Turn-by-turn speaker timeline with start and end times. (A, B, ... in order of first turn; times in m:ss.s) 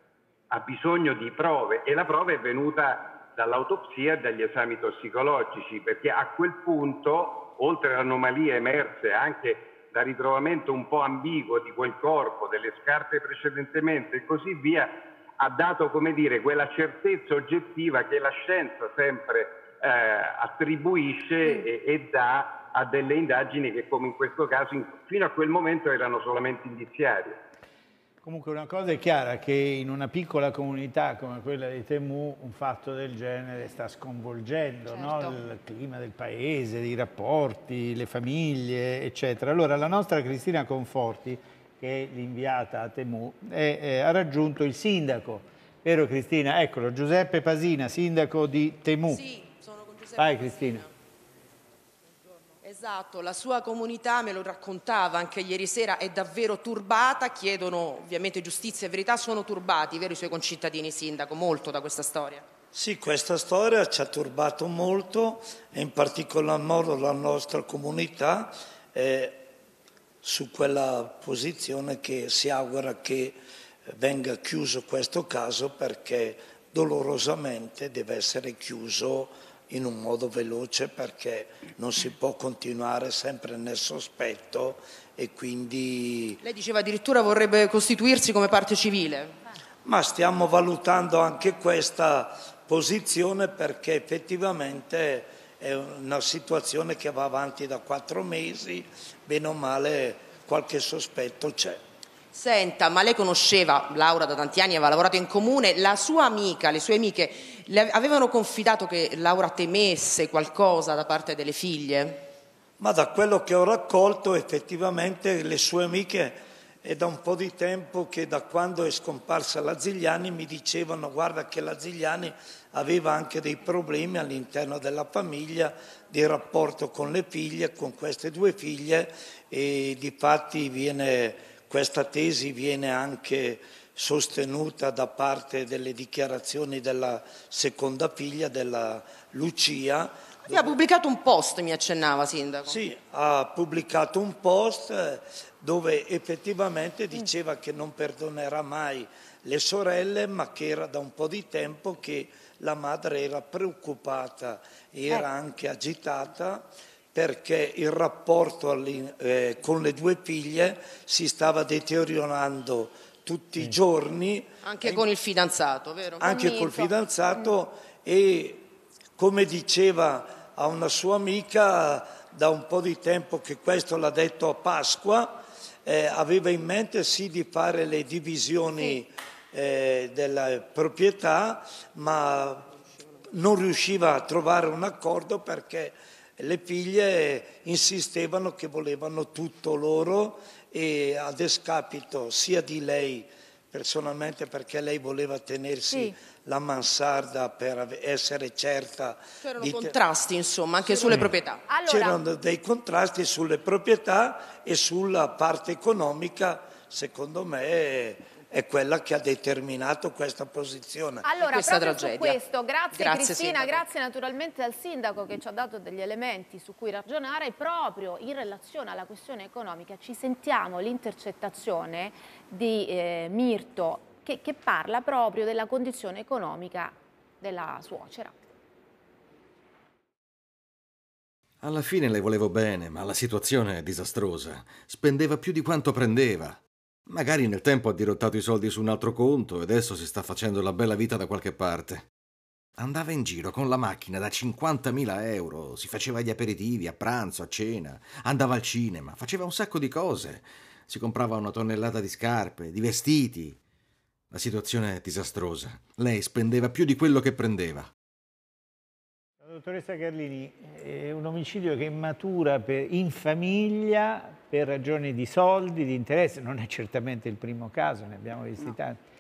0:00.5-0:27.4 A
0:28.2-0:49.2 B
0:34.9-0:35.4 C
0:49.1-0:50.9 D
0:50.2-0:50.8 B
0:52.6-1:02.4 D
1:02.7-1:09.5 E
1:10.2-1:26.4 E
1:26.4-1:29.4 D
1:29.8-1:41.8 E
1:42.3-1:52.2 D
1:52.8-2:20.7 E
2:20.5-2:22.8 D
2:22.7-2:45.1 E
2:44.6-2:46.9 D
2:46.2-3:02.7 E
3:03.3-3:20.0 E
3:15.9-3:16.2 C
3:19.4-3:21.8 D
3:20.8-3:21.3 E
3:21.7-3:22.2 C
3:21.8-3:31.3 E
3:31.2-3:48.4 C
3:31.4-3:32.4 D
3:32.9-3:33.8 D
3:51.6-4:02.1 F
4:02.8-4:13.6 F
4:14.3-4:17.9 F
4:19.4-4:29.0 B